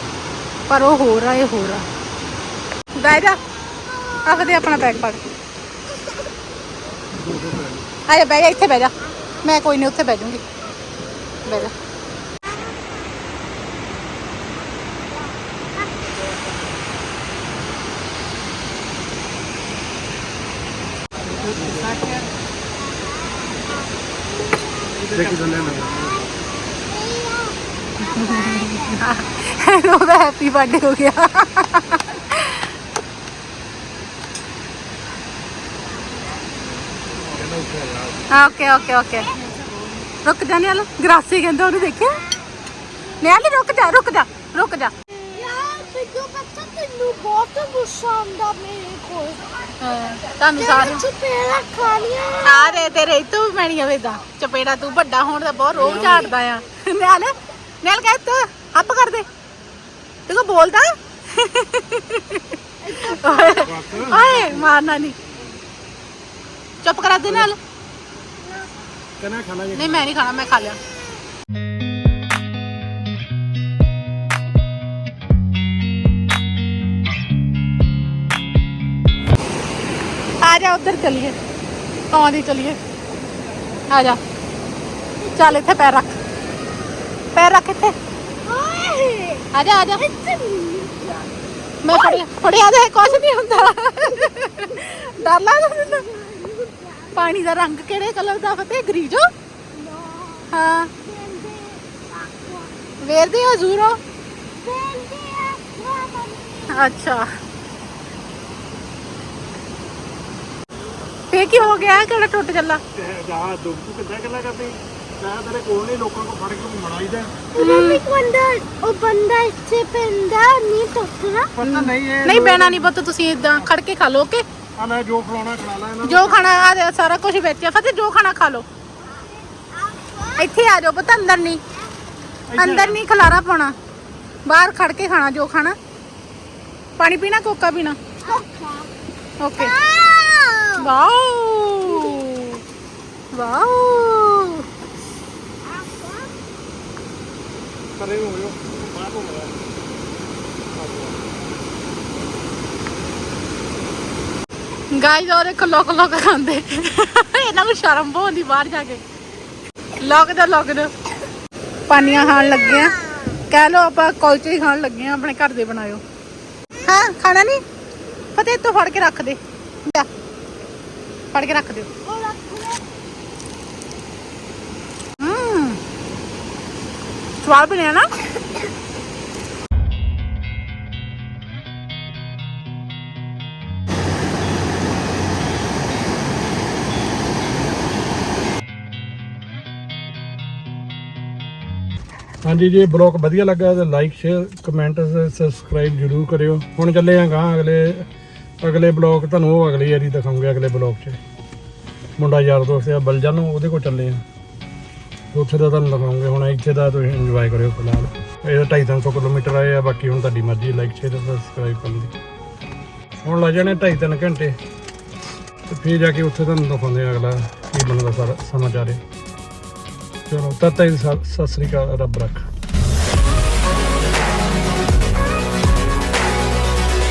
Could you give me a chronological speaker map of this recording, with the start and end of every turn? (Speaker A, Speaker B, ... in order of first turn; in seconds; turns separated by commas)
Speaker A: 0.7-1.9, Speaker A: 3.0-3.4, Speaker A: 4.2-5.2, Speaker B: 7.2-7.8, Speaker A: 8.1-8.9, Speaker A: 9.4-10.4, Speaker A: 11.4-11.7, Speaker B: 21.4-22.1, Speaker C: 23.3-23.7, Speaker C: 24.6-25.1, Speaker B: 25.1-26.2, Speaker C: 26.1-27.6, Speaker A: 28.0-32.7, Speaker C: 28.1-28.7, Speaker A: 38.3-39.3, Speaker A: 40.2-42.2, Speaker A: 43.2-44.9, Speaker C: 45.3-49.7, Speaker A: 49.8-51.0, Speaker C: 50.5-52.8, Speaker A: 52.4-59.2, Speaker B: 55.8-56.3, Speaker A: 60.3-65.2, Speaker C: 62.9-63.8, Speaker B: 63.6-64.8, Speaker A: 66.8-67.6, Speaker B: 67.2-67.5, Speaker B: 69.2-70.1, Speaker A: 69.7-70.8, Speaker A: 80.4-81.4, Speaker A: 82.1-82.8, Speaker A: 83.9-84.2, Speaker A: 85.3-86.1, Speaker A: 87.3-87.9, Speaker C: 88.4-91.3, Speaker A: 89.5-90.0, Speaker A: 91.8-96.0, Speaker C: 91.9-92.2, Speaker C: 95.5-97.3, Speaker A: 97.1-99.3, Speaker C: 99.7-103.0, Speaker A: 100.5-100.9, Speaker A: 103.0-104.0, Speaker C: 104.6-106.9, Speaker A: 106.7-107.2, Speaker A: 111.3-112.8, Speaker B: 111.7-112.0, Speaker B: 112.9-117.5, Speaker A: 117.5-118.0, Speaker C: 117.5-121.5, Speaker B: 121.5-122.9, Speaker A: 121.6-124.4, Speaker B: 124.8-126.5, Speaker A: 126.0-128.6, Speaker C: 129.2-130.4, Speaker A: 130.4-131.6, Speaker B: 132.5-133.0, Speaker A: 132.6-133.7, Speaker A: 134.4-135.8, Speaker A: 137.0-138.0, Speaker C: 138.2-138.9, Speaker A: 139.4-139.7, Speaker C: 139.6-140.8, Speaker A: 140.8-142.6, Speaker C: 141.9-142.2, Speaker A: 143.3-144.6, Speaker C: 145.7-146.3, Speaker B: 148.0-149.5, Speaker B: 150.8-151.2, Speaker A: 154.9-159.0, Speaker A: 160.0-160.9, Speaker A: 161.9-166.0, Speaker A: 166.8-167.6, Speaker A: 168.3-170.1, Speaker A: 171.3-171.9, Speaker C: 172.0-172.8, Speaker A: 175.2-175.8, Speaker A: 177.4-178.1, Speaker B: 192.4-198.1, Speaker B: 198.6-201.2, Speaker B: 202.2-204.2, Speaker B: 205.3-212.1, Speaker B: 213.2-214.5, Speaker B: 215.7-219.0, Speaker B: 220.3-222.5